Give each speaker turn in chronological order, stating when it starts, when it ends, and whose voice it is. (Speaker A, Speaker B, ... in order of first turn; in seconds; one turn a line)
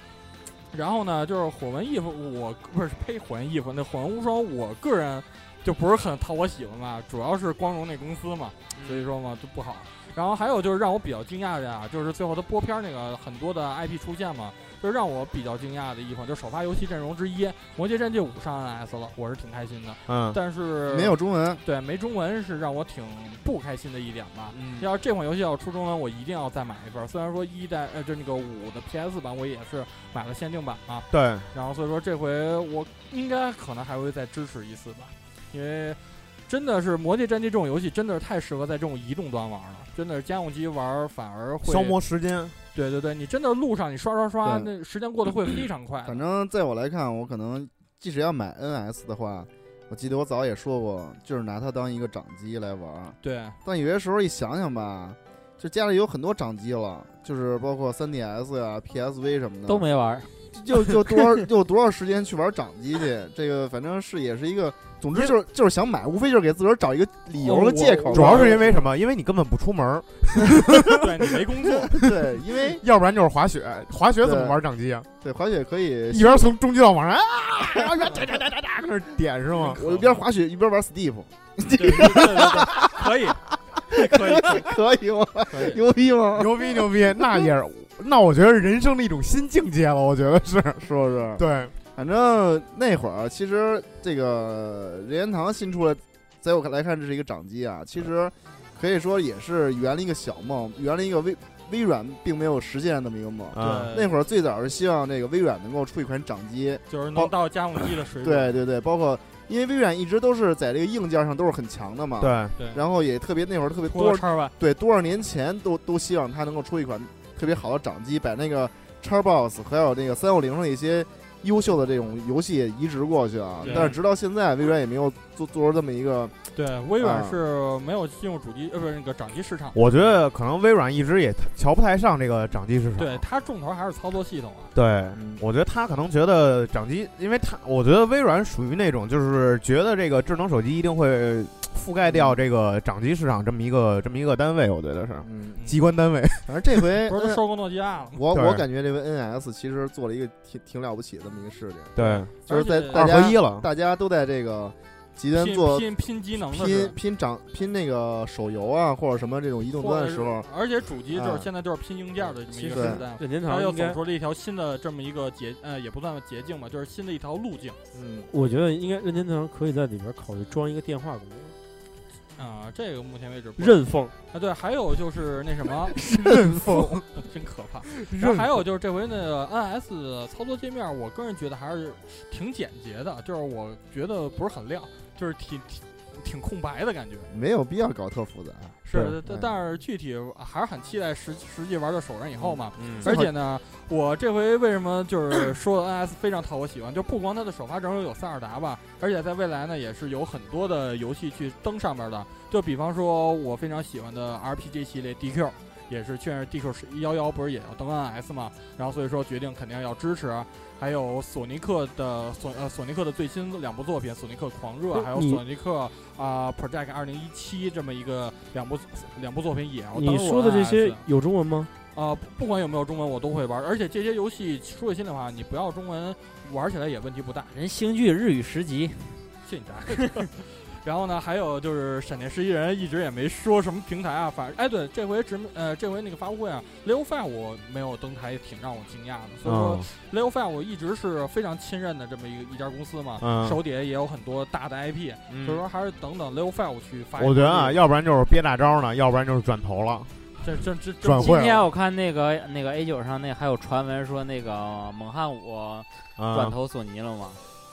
Speaker A: 0.7-42.0
Speaker B: 8.8-9.1
Speaker B: 20.1-20.4
Speaker C: 20.9-21.6
Speaker B: 24.5-24.9
Speaker B: 31.1-31.5
Speaker B: 41.6-42.6
Speaker A: 42.7-46.2
Speaker C: 44.4-44.7
Speaker C: 46.0-59.9
Speaker A: 53.2-53.6
Speaker D: 59.7-61.3
Speaker C: 60.5-68.8
Speaker A: 67.4-68.8
Speaker B: 68.1-72.1
Speaker A: 70.9-71.9
Speaker C: 71.9-72.8
Speaker B: 72.6-75.1
Speaker C: 74.2-74.6
Speaker C: 75.2-76.5
Speaker B: 76.1-79.8
Speaker C: 77.8-78.2
Speaker A: 79.6-80.2
Speaker C: 79.7-83.3
Speaker A: 81.7-84.7
Speaker C: 83.9-87.5
Speaker A: 85.5-85.8
Speaker B: 86.4-90.8
Speaker C: 90.8-91.4
Speaker B: 91.4-91.7
Speaker C: 92.0-107.3
Speaker B: 103.5-104.0
Speaker A: 103.6-104.2
Speaker A: 106.9-108.6
Speaker C: 108.2-126.5
Speaker B: 112.2-112.5
Speaker A: 112.6-112.8
Speaker A: 113.9-114.5
Speaker A: 123.6-124.0
Speaker A: 126.5-130.2
Speaker C: 127.0-127.4
Speaker B: 129.8-133.2
Speaker A: 133.0-134.7
Speaker B: 134.8-146.8
Speaker C: 135.1-135.4
Speaker C: 142.1-142.4
Speaker C: 145.2-145.6
Speaker C: 146.5-147.4
Speaker A: 147.1-148.2
Speaker C: 148.1-160.5
Speaker B: 148.3-148.6
Speaker B: 151.9-152.3
Speaker A: 152.0-153.1
Speaker B: 152.9-153.7
Speaker A: 155.3-157.0
Speaker A: 159.8-167.8
Speaker C: 161.1-161.5
Speaker E: 162.6-164.0
Speaker C: 162.7-163.1
Speaker C: 167.9-168.3
Speaker E: 168.3-171.6
Speaker A: 172.4-187.3
Speaker E: 173.6-174.1
Speaker C: 176.3-176.9
Speaker B: 176.3-177.0
Speaker B: 177.9-178.5
Speaker C: 187.3-189.5
Speaker A: 188.8-221.0
Speaker C: 192.4-193.3
Speaker B: 192.8-193.1
Speaker E: 214.9-215.4
Speaker E: 219.9-221.7
Speaker A: 221.9-227.5
Speaker D: 227.5-229.2
Speaker A: 229.4-247.8
Speaker B: 239.4-239.9
Speaker B: 243.2-243.6
Speaker B: 245.3-245.7
Speaker B: 247.2-250.1
Speaker A: 250.4-251.5
Speaker B: 251.0-251.7
Speaker D: 251.2-257.4
Speaker B: 256.2-256.6